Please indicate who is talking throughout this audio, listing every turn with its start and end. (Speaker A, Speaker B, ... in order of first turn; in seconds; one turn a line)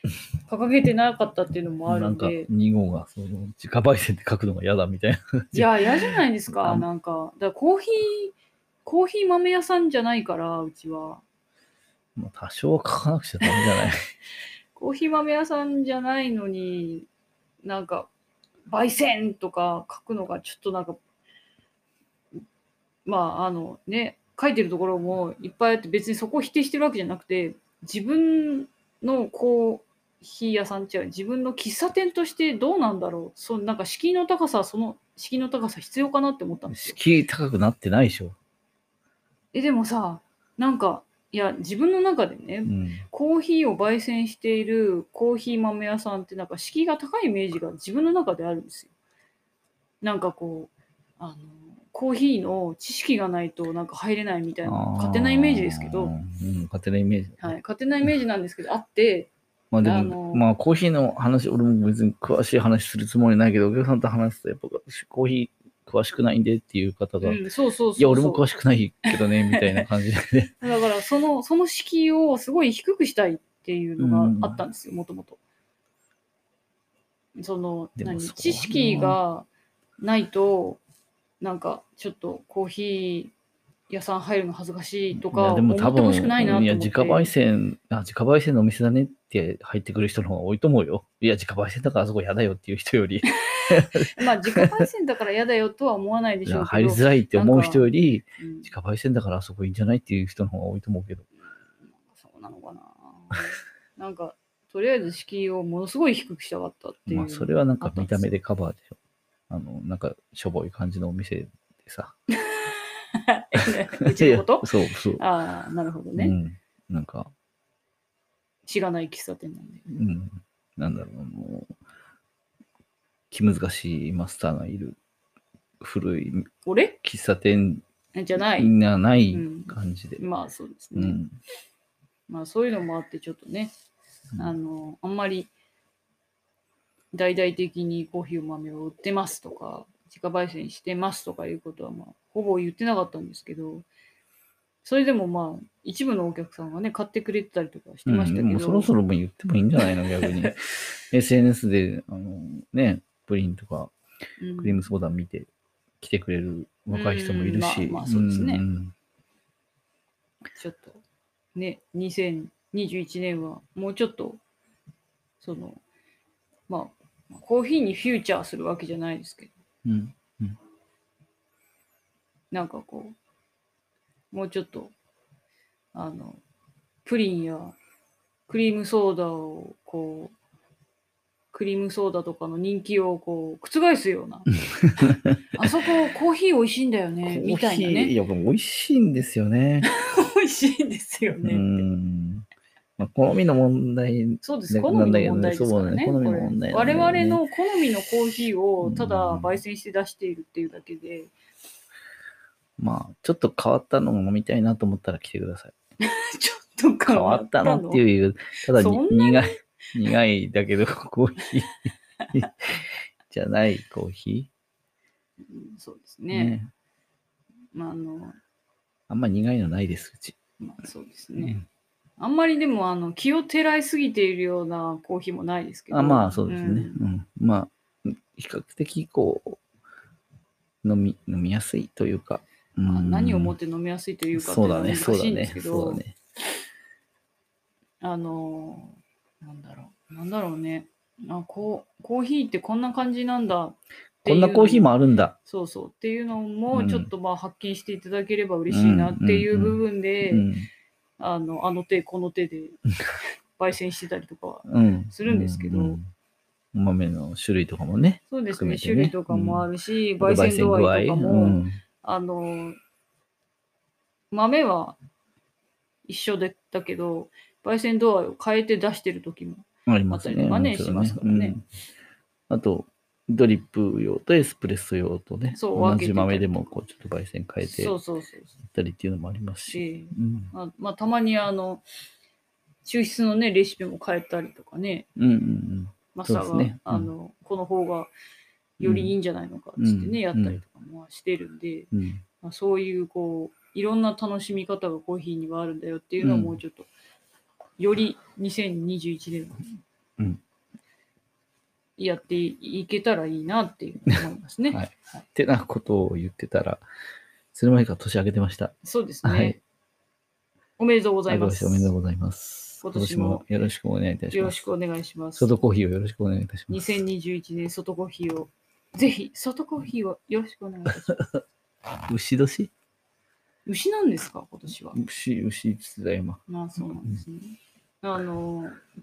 Speaker A: 0.5-2.5
Speaker B: 1.9-6.9
Speaker A: 5.5-11.2
Speaker B: 12.2-14.0
Speaker A: 13.4-13.9
Speaker A: 14.8-17.1
Speaker A: 17.6-18.1
Speaker A: 18.7-21.0
Speaker A: 23.1-37.0
Speaker B: 36.7-38.4
Speaker A: 39.5-48.9
Speaker B: 42.7-43.0
Speaker A: 50.0-56.1
Speaker B: 54.7-57.5
Speaker A: 57.4-60.5
Speaker B: 59.7-67.5
Speaker A: 67.2-68.4
Speaker B: 68.0-70.6
Speaker A: 69.1-69.9
Speaker A: 70.6-75.4
Speaker B: 74.0-74.6
Speaker A: 77.4-79.5
Speaker B: 78.0-79.2
Speaker A: 80.0-80.8
Speaker A: 81.4-83.3
Speaker A: 83.9-87.3
Speaker B: 85.1-94.9
Speaker A: 93.3-98.7
Speaker B: 96.5-101.3
Speaker A: 101.9-108.4
Speaker B: 107.1-109.0
Speaker B: 109.5-112.2
Speaker A: 112.3-116.3
Speaker B: 113.6-115.2
Speaker B: 116.2-117.3
Speaker A: 118.7-119.8
Speaker B: 119.9-121.8
Speaker B: 123.3-125.0
Speaker B: 125.8-126.5
Speaker A: 126.7-127.0
Speaker B: 127.0-127.8
Speaker A: 128.1-128.8
Speaker B: 128.4-130.2
Speaker A: 129.3-131.2
Speaker B: 130.9-131.4
Speaker A: 132.3-133.7
Speaker A: 134.4-135.5
Speaker A: 137.1-143.9
Speaker A: 144.8-148.9
Speaker B: 148.1-153.9
Speaker A: 149.8-150.5
Speaker A: 154.4-154.9
Speaker B: 154.6-155.5
Speaker B: 156.0-158.9
Speaker A: 156.9-158.7
Speaker A: 160.6-161.0
Speaker A: 161.6-164.4
Speaker A: 165.4-165.8
Speaker A: 166.7-169.5
Speaker B: 169.8-170.6
Speaker A: 172.5-173.2
Speaker A: 174.3-174.9
Speaker A: 175.9-176.4
Speaker A: 177.1-177.8
Speaker A: 178.5-180.3
Speaker A: 181.5-188.2
Speaker B: 184.8-185.7
Speaker B: 187.2-189.9
Speaker A: 189.8-191.8
Speaker B: 191.4-192.5
Speaker B: 193.0-197.4
Speaker A: 194.4-201.3
Speaker B: 198.8-199.5
Speaker B: 202.8-205.7
Speaker A: 206.0-208.0
Speaker B: 207.1-214.5
Speaker A: 208.8-209.6
Speaker A: 215.5-216.6
Speaker B: 216.3-216.7
Speaker A: 217.7-218.4
Speaker B: 219.1-220.4
Speaker A: 220.6-221.6
Speaker B: 221.4-221.6
Speaker A: 222.2-227.0
Speaker B: 225.9-229.6
Speaker B: 230.8-233.6
Speaker A: 232.9-236.0
Speaker B: 234.3-236.2
Speaker A: 238.0-244.9
Speaker B: 244.2-245.4
Speaker A: 245.4-250.5
Speaker B: 246.7-247.1
Speaker B: 248.7-250.7
Speaker A: 251.2-252.8
Speaker A: 253.6-256.0
Speaker B: 254.7-256.1
Speaker B: 256.7-259.7
Speaker A: 258.3-262.8
Speaker B: 260.2-261.8
Speaker A: 264.3-265.0
Speaker A: 266.1-271.6
Speaker B: 269.9-271.6
Speaker B: 272.5-277.9
Speaker A: 275.5-276.7
Speaker A: 277.6-278.6
Speaker B: 278.6-280.5
Speaker A: 279.7-281.8
Speaker A: 282.9-285.1
Speaker B: 285.2-287.1
Speaker A: 286.1-288.1
Speaker A: 288.8-291.9
Speaker B: 288.8-289.1
Speaker B: 289.8-290.6
Speaker B: 291.9-292.2
Speaker A: 292.4-296.9
Speaker B: 296.2-296.6
Speaker A: 297.8-299.7
Speaker A: 302.0-304.8
Speaker B: 304.7-306.9
Speaker B: 307.5-308.7
Speaker A: 308.8-309.6
Speaker B: 309.2-309.6
Speaker A: 310.8-311.9
Speaker B: 311.3-314.7
Speaker A: 312.8-313.4
Speaker A: 314.3-315.6
Speaker B: 315.4-316.9
Speaker A: 316.7-321.3
Speaker B: 322.1-322.7
Speaker A: 323.7-325.0
Speaker B: 324.9-326.4
Speaker A: 326.5-328.8